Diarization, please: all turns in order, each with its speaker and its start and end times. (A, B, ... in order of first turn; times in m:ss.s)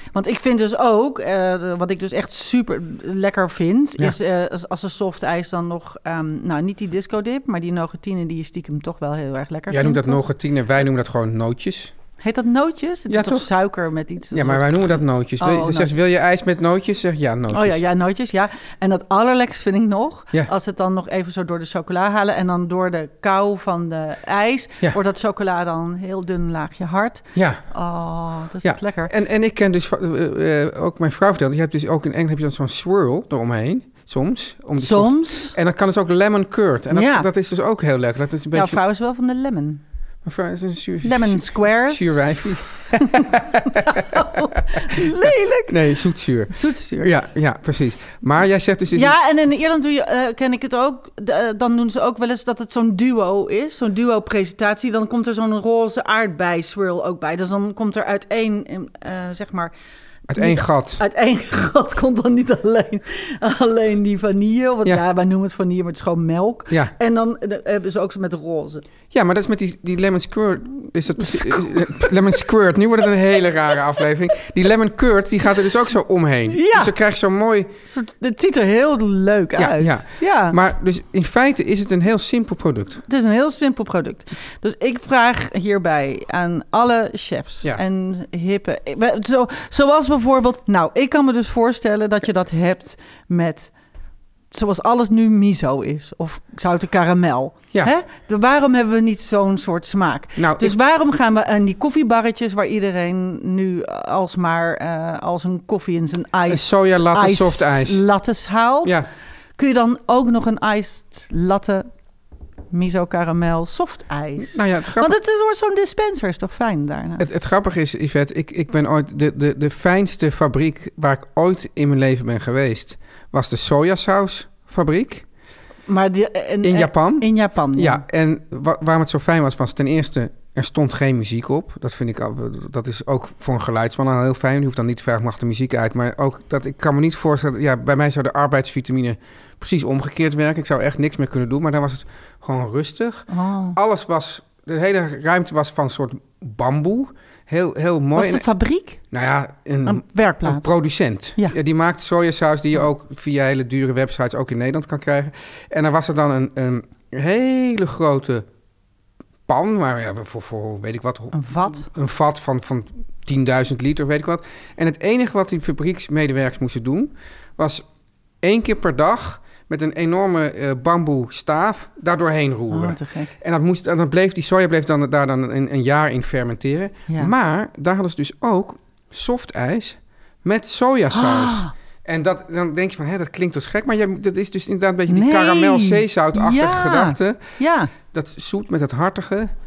0:00.1-0:10.2 A
0:09.7-0:11.9 B
0:12.2-0:15.9 A
0:13.1-0:13.5 B
0:14.3-0:17.8 B
0:17.5-0:29.1 A
0:27.3-0:27.6 B
0:28.6-0:38.8 B
0:34.8-0:35.6 A
0:36.9-0:37.3 A
0:38.5-0:39.8 A
0:40.2-0:45.1 B
0:41.0-0:42.3 A
0:42.9-0:45.8 A
0:45.7-0:49.1 B
0:46.5-0:47.1 A
0:48.9-0:59.7 A
1:00.3-1:01.0 B
1:00.4-1:08.8 A
1:09.1-1:17.7 B
1:11.2-1:12.4 A
1:16.5-1:16.9 A
1:17.8-1:20.6 A
1:19.6-1:23.0 B
1:23.1-1:33.7 A
1:34.5-1:49.0 A
1:40.4-1:40.8 B
1:46.5-1:48.0 B
1:49.6-1:51.9 A
1:52.7-1:57.2 A
1:54.5-1:55.2 B
1:57.2-2:05.2 B
2:05.9-2:08.0 A
2:06.6-2:28.4 B
2:23.3-2:23.8 A
2:28.1-2:29.0 A
2:29.1-2:38.5 B
2:29.8-2:30.7 A
2:39.5-2:47.8 B
2:41.3-2:41.9 A
2:48.4-3:07.4 B
2:52.7-2:53.3 A
3:01.1-3:01.7 A
3:05.1-3:07.9 A
3:08.1-3:09.5 B